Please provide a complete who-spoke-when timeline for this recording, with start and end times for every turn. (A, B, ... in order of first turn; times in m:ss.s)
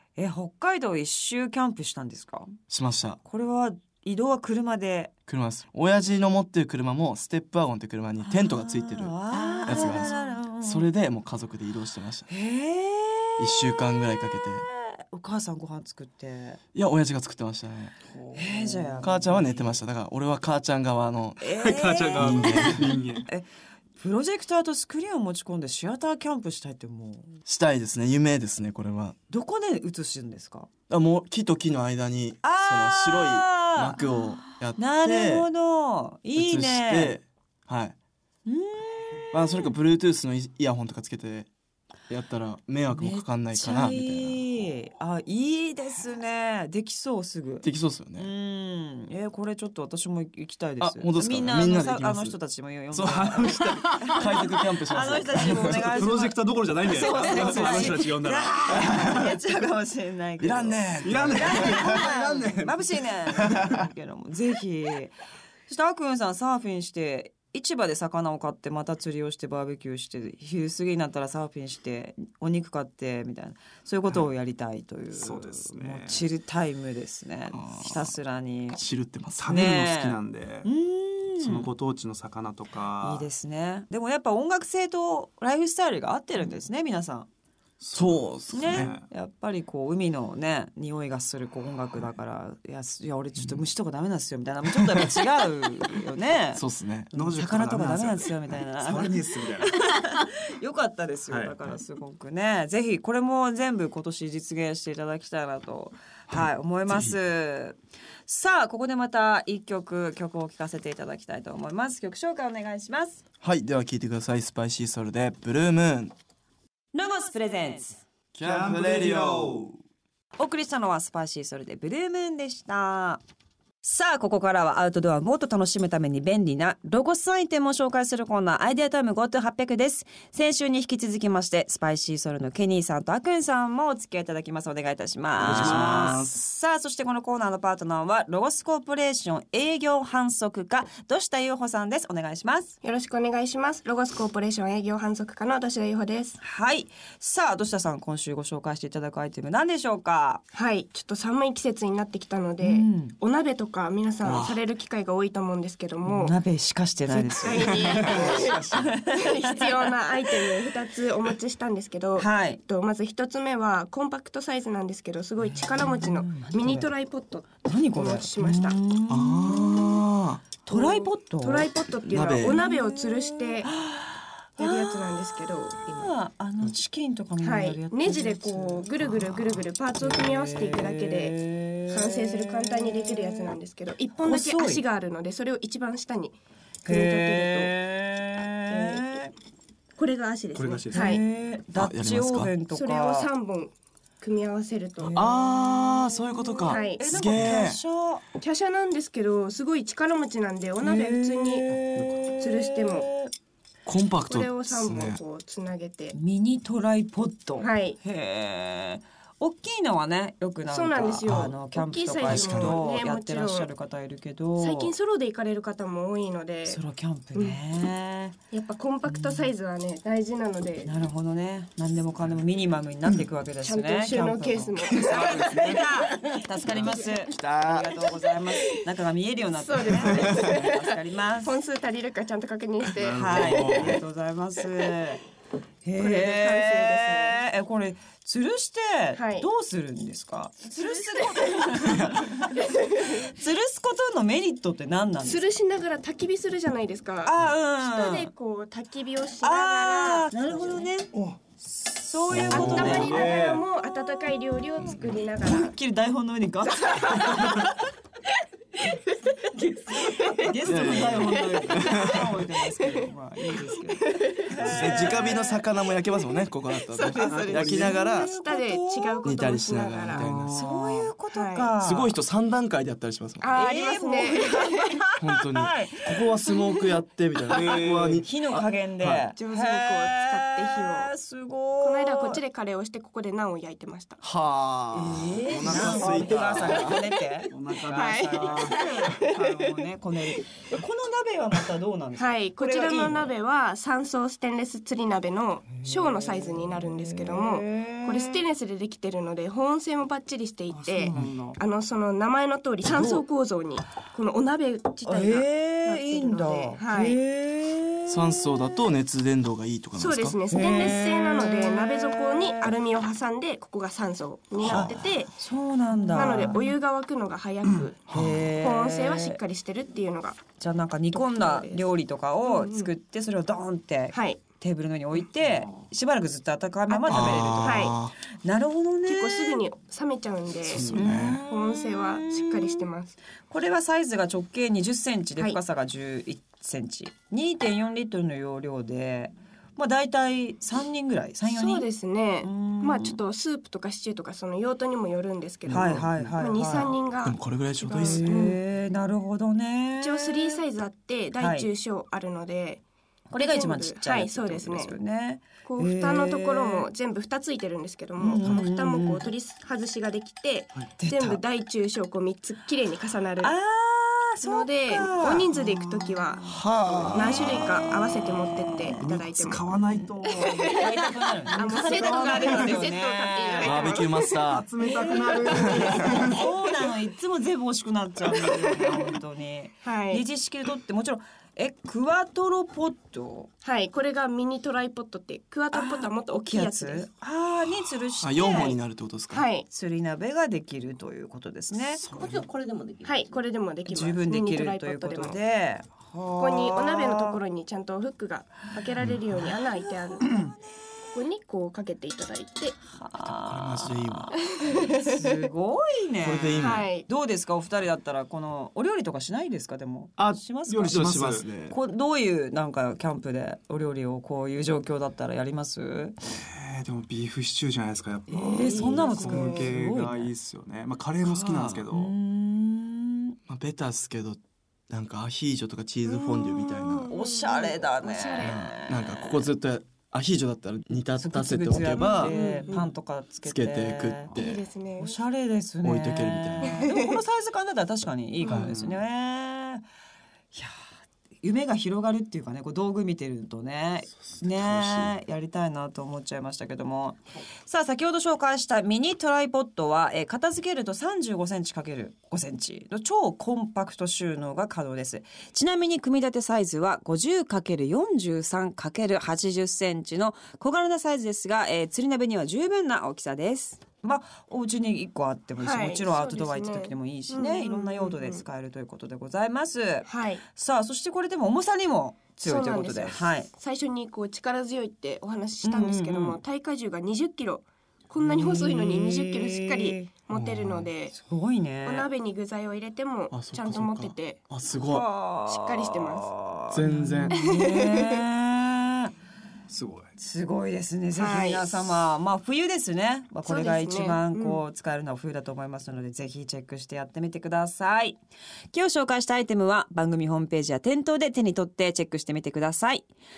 0:00.2-0:02.5 A
0:02.7-0:03.2 B
0:03.2-0:05.1 A
0:05.3-0:09.1 B
0:08.2-0:10.9 A
0:09.3-0:10.4 C
0:09.6-0:12.3 B
0:12.3-0:16.6 A
0:13.4-0:14.6 B
0:16.7-0:18.0 B
0:18.1-0:19.1 D
0:18.3-0:19.7 A
0:19.0-0:22.9 B
0:21.4-0:27.3 A
0:21.6-0:23.3 D
0:27.4-0:29.2 B
0:29.3-0:30.7 A
0:30.9-0:35.5 B
0:32.4-0:37.2 A
0:36.4-0:37.9 B
0:38.4-0:39.7 A
0:39.3-0:41.5 B
0:42.1-0:44.4 B
0:42.9-1:05.1 A
0:47.6-0:48.3 B
0:50.8-0:52.4 B
0:52.9-0:56.0 B
0:53.0-0:54.3 D
0:55.3-0:59.4 D
0:57.3-0:57.9 B
0:58.8-0:59.2 B
1:00.4-1:02.1 B
1:01.0-1:03.7 D
1:03.5-1:03.8 B
1:05.7-1:18.8 A
1:15.2-1:16.2 D
1:17.5-1:18.1 B
1:18.7-1:19.5 B
1:19.4-1:20.7 D
1:19.5-1:21.7 A
1:21.4-1:23.3 D
1:23.0-1:27.3 A
1:27.8-1:29.0 D
1:27.9-1:28.9 B
1:28.5-1:53.2 A
1:36.5-1:37.1 B
1:37.1-1:39.8 D
1:41.3-1:41.8 D
1:46.3-1:47.2 B
1:53.4-1:56.1 B
1:56.9-1:58.0 A
1:58.3-1:59.8 B
2:00.4-2:03.2 A
2:03.8-2:22.8 A
2:15.4-2:16.4 B
2:15.4-2:16.2 D
2:22.8-2:26.4 E
2:26.4-2:30.4 A
2:30.5-2:36.4 E
2:32.6-2:33.1 A
2:34.2-2:34.6 B
2:36.0-2:40.7 A
2:37.4-2:48.8 E
2:37.6-2:39.0 B
2:37.9-2:38.6 D
2:42.2-2:42.6 A
2:45.8-2:46.9 A
2:47.6-2:50.0 A
2:49.1-2:50.4 B
2:50.6-2:51.7 A
2:50.7-2:53.7 E
2:52.0-2:52.6 B
2:52.4-3:03.5 A
2:54.6-2:56.1 E
2:57.4-3:07.8 E
3:04.2-3:04.8 A
3:06.8-3:09.3 A
3:08.7-3:09.1 E
3:10.0-3:11.2 E
3:10.5-3:11.2 D
3:10.9-3:13.3 A
3:11.7-3:12.5 B
3:12.7-3:15.1 E
3:15.0-3:18.2 A
3:15.1-3:17.8 B
3:16.7-3:17.0 E
3:18.4-3:21.8 E
3:20.8-3:23.3 A
3:21.9-3:22.2 D
3:22.4-3:23.1 E
3:23.9-3:25.2 B
3:24.3-3:26.2 E
3:26.1-3:34.9 A
3:27.6-3:28.0 E
3:30.7-3:33.7 E
3:31.3-3:31.5 B
3:32.2-3:32.8 B
3:34.6-3:36.8 E
3:36.6-3:38.4 A
3:38.5-3:40.9 E
3:39.0-3:39.5 A
3:40.8-3:51.6 A
3:43.6-3:46.1 E
3:45.0-3:45.8 D
3:47.3-3:47.9 B
3:49.6-3:50.9 E
3:51.4-3:54.0 E
3:53.0-3:54.0 D
3:53.1-3:55.2 A
3:55.8-4:05.4 A
3:56.0-3:57.4 E
3:59.2-3:59.5 E
4:00.7-4:03.3 E
4:05.2-4:10.9 E
4:07.2-4:08.3 A
4:09.4-4:11.1 A
4:11.1-4:11.4 D
4:11.9-4:13.4 A
4:12.3-4:13.2 B
4:12.4-4:13.6 D
4:12.5-4:15.8 E
4:15.4-4:17.7 A
4:16.6-4:17.7 E
4:19.5-4:25.4 A
4:19.9-4:25.6 E
4:20.6-4:22.4 B
4:24.6-4:28.3 B
4:26.9-4:30.3 E
4:27.0-4:29.3 A
4:27.2-4:27.9 D
4:29.2-4:30.6 B
4:30.1-4:31.1 D
4:30.5-4:32.1 A
4:31.3-4:31.7 E
4:31.8-4:33.6 B
4:33.4-4:35.0 E
4:33.5-4:36.9 A
4:35.2-4:39.2 B
4:37.5-4:38.2 D
4:38.2-4:42.4 A
4:39.3-4:41.1 E
4:41.8-4:44.2 E
4:44.2-4:47.0 B
4:44.9-4:53.3 A
4:45.6-4:46.9 D
4:47.5-4:49.0 D
4:47.9-4:49.7 E
4:52.2-5:07.2 E
4:55.7-4:58.4 A
5:00.7-5:01.6 A
5:02.8-5:03.2 A
5:05.0-5:08.5 A
5:08.1-5:10.4 B
5:10.0-5:15.3 E
5:10.5-5:12.7 A
5:14.6-5:15.0 B
5:14.6-5:16.7 A
5:16.1-5:20.4 E
5:18.1-5:18.5 B
5:18.1-5:19.4 A
5:20.6-5:29.6 A
5:21.1-5:21.9 E
5:22.4-5:22.9 E
5:24.1-5:24.4 E
5:26.9-5:27.9 E
5:27.1-5:28.1 B
5:29.1-5:33.1 E
5:30.6-5:31.4 B
5:30.7-5:30.9 D
5:30.9-5:32.9 A
5:33.5-5:41.9 A
5:41.4-5:48.6 E
5:42.4-5:43.2 A
5:45.6-5:46.4 D
5:45.7-5:46.9 A
5:46.6-5:48.5 B
5:47.9-5:50.6 A
5:50.0-5:55.0 E
5:51.4-5:51.7 A
5:53.3-5:56.9 A
5:55.6-6:03.5 E
5:58.2-5:59.3 A
6:01.0-6:01.4 A
6:03.4-6:09.1 A
6:04.4-6:09.6 E
6:06.4-6:07.8 B
6:09.0-6:10.9 D
6:10.0-6:14.1 A
6:10.3-6:10.9 E
6:11.5-6:16.5 E
6:11.9-6:12.8 D
6:13.6-6:14.7 B
6:14.3-6:16.4 D
6:14.8-6:23.5 A
6:15.5-6:16.0 B
6:18.3-6:19.2 E
6:19.8-6:20.2 E
6:23.6-6:27.1 E
6:25.7-6:28.8 A
6:28.2-6:29.5 B
6:28.4-6:28.7 E
6:29.3-6:29.6 E
6:29.7-6:32.0 A
6:32.0-6:33.4 C
6:33.0-6:35.4 E
6:33.9-6:37.4 A
6:36.4-6:40.5 E
6:40.2-6:40.5 A
6:41.1-6:42.8 E
6:42.9-6:51.0 A
6:43.2-6:44.9 B
6:44.6-6:45.3 E
6:46.2-6:46.9 B
6:46.6-6:47.1 E
6:50.2-6:51.8 B
6:50.7-6:51.5 D
6:51.6-6:56.2 A
6:56.4-7:02.1 D
6:58.3-7:00.3 A
6:58.4-6:59.7 E
7:01.2-7:01.9 B
7:01.9-7:03.4 A
7:03.5-7:07.1 B
7:06.1-7:08.6 E
7:07.1-7:09.4 A
7:08.4-7:12.4 B
7:10.9-7:14.4 A
7:11.9-7:12.9 E
7:13.4-7:14.6 B
7:14.3-7:15.2 E
7:15.0-7:19.8 A
7:15.8-7:16.8 B
7:16.7-7:17.2 E
7:18.4-7:18.7 B
7:18.5-7:19.0 D
7:20.5-7:20.8 A
7:21.4-7:53.5 A
7:24.4-7:25.2 B
7:45.6-7:48.4 E
7:50.1-7:50.4 E
7:52.4-8:01.1 E
7:55.6-7:56.4 A
7:58.2-8:00.1 A
8:00.3-8:00.9 B
8:01.1-8:02.1 A
8:01.8-8:04.4 E
8:03.3-8:05.1 B
8:04.8-8:09.1 A
8:05.5-8:06.4 E
8:06.7-8:07.4 B
8:07.3-8:08.2 E
8:09.7-8:10.1 D
8:10.2-8:18.2 A
8:11.1-8:12.0 E
8:13.4-8:14.6 E
8:18.7-8:23.0 A